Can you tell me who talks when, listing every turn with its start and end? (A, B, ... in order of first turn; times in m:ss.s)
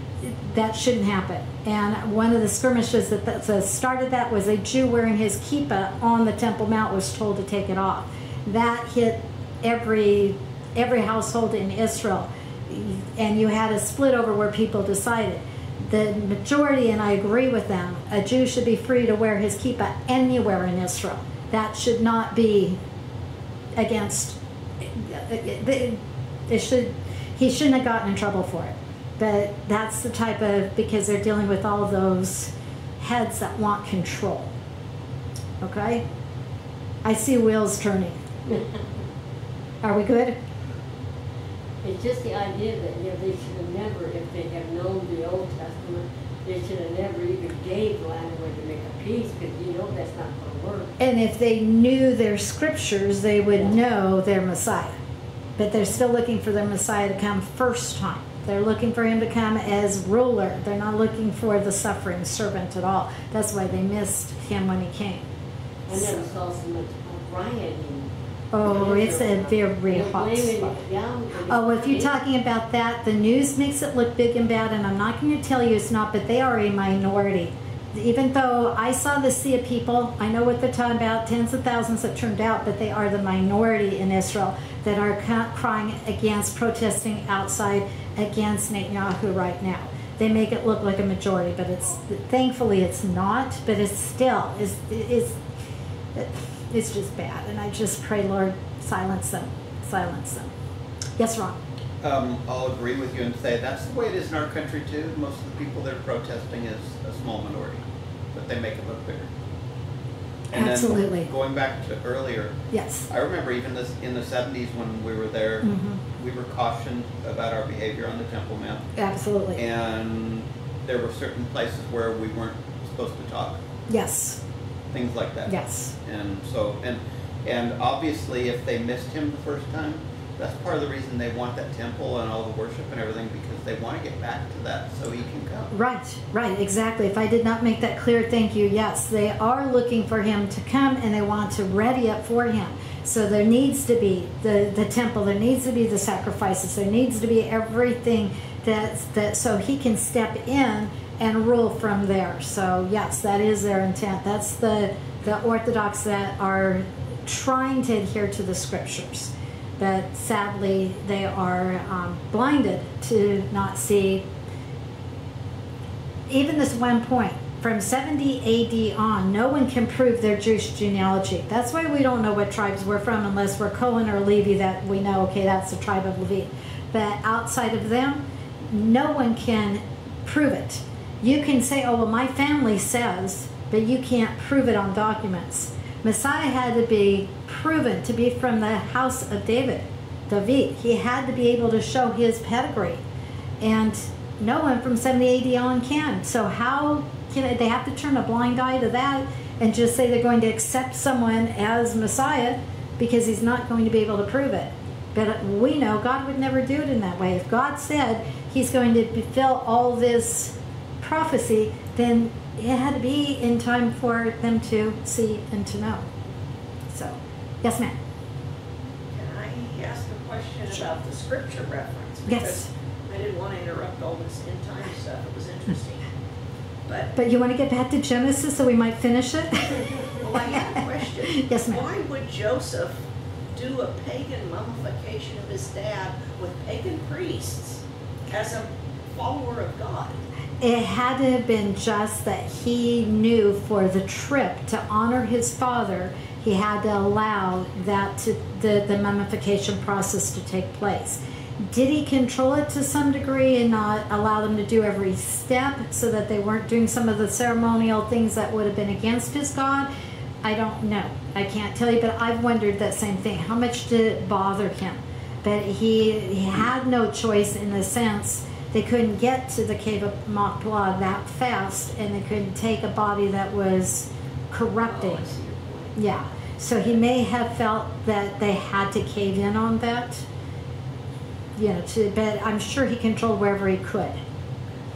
0:00.2-0:22.8 A
0:23.8-0:34.5 A
0:35.6-0:36.0 A
0:37.0-0:38.2 A
0:38.4-0:39.0 B
0:39.8-0:40.4 A
0:41.8-0:50.9 B
0:51.0-0:55.0 A
0:55.6-1:05.2 A
1:05.9-1:08.1 B
1:05.9-1:06.2 A
1:08.5-1:10.7 A
1:08.6-1:12.1 B
1:11.5-1:35.4 A
1:36.1-1:40.5 A
1:41.2-1:41.6 A
1:42.0-1:47.8 C
1:48.3-1:49.3 C
1:50.5-1:52.6 C
1:50.5-1:51.3 A
1:52.7-1:53.1 A
1:53.1-1:58.8 C
1:55.6-1:56.0 A
1:59.0-1:59.6 A
1:59.6-2:03.6 C
2:03.9-2:04.4 A
2:04.9-2:15.7 C
2:05.5-2:05.9 A
2:15.7-2:44.2 A
2:46.3-3:13.0 A
3:13.6-3:36.0 A
3:36.9-3:37.9 A
3:39.1-3:46.0 D
3:42.2-3:42.7 A
3:47.1-3:49.9 A
3:50.0-3:53.0 D
3:51.3-3:51.8 A
3:53.5-4:00.2 D
4:00.6-4:19.9 A
4:20.4-4:35.4 A
4:34.8-4:35.9 D
4:35.9-4:40.2 A
4:41.6-4:44.2 A